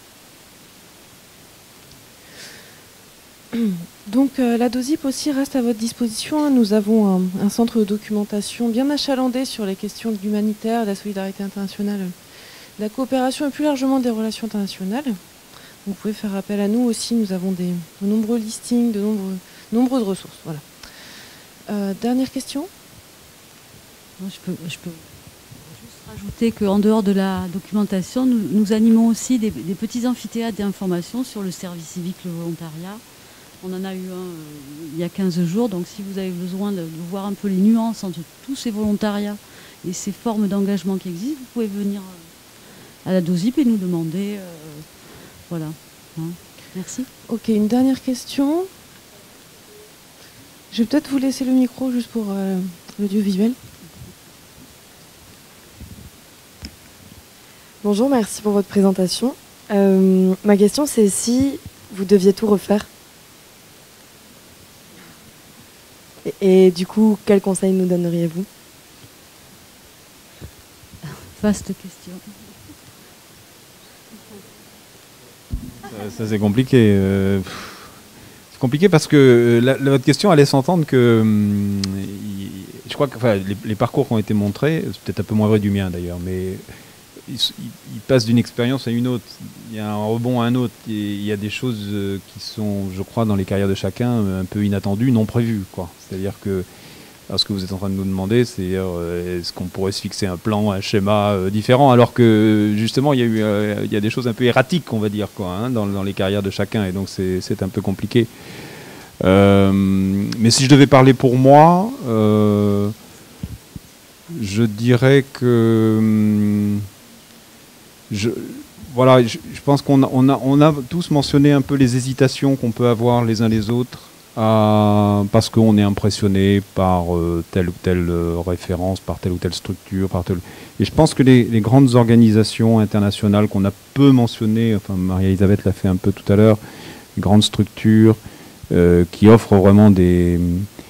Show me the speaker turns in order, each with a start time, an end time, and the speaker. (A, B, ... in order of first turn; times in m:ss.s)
0:03.5-0:12.2 A
0:12.8-0:15.2 A
0:15.8-0:20.7 A
0:21.7-0:22.7 A
0:24.2-0:33.0 B
0:33.6-0:42.3 B
0:43.0-0:44.9 B
0:45.5-0:47.1 B
0:47.3-0:48.7 A
0:50.7-0:53.6 A
0:57.8-1:02.9 C
1:06.2-1:08.5 C
1:11.3-1:12.2 B
1:15.8-1:17.9 D
1:18.5-1:26.6 D
1:27.3-1:36.7 D
1:37.3-1:48.3 D
1:49.2-1:53.0 D
1:54.3-1:56.9 D
1:58.1-2:16.6 D
2:17.2-2:20.7 D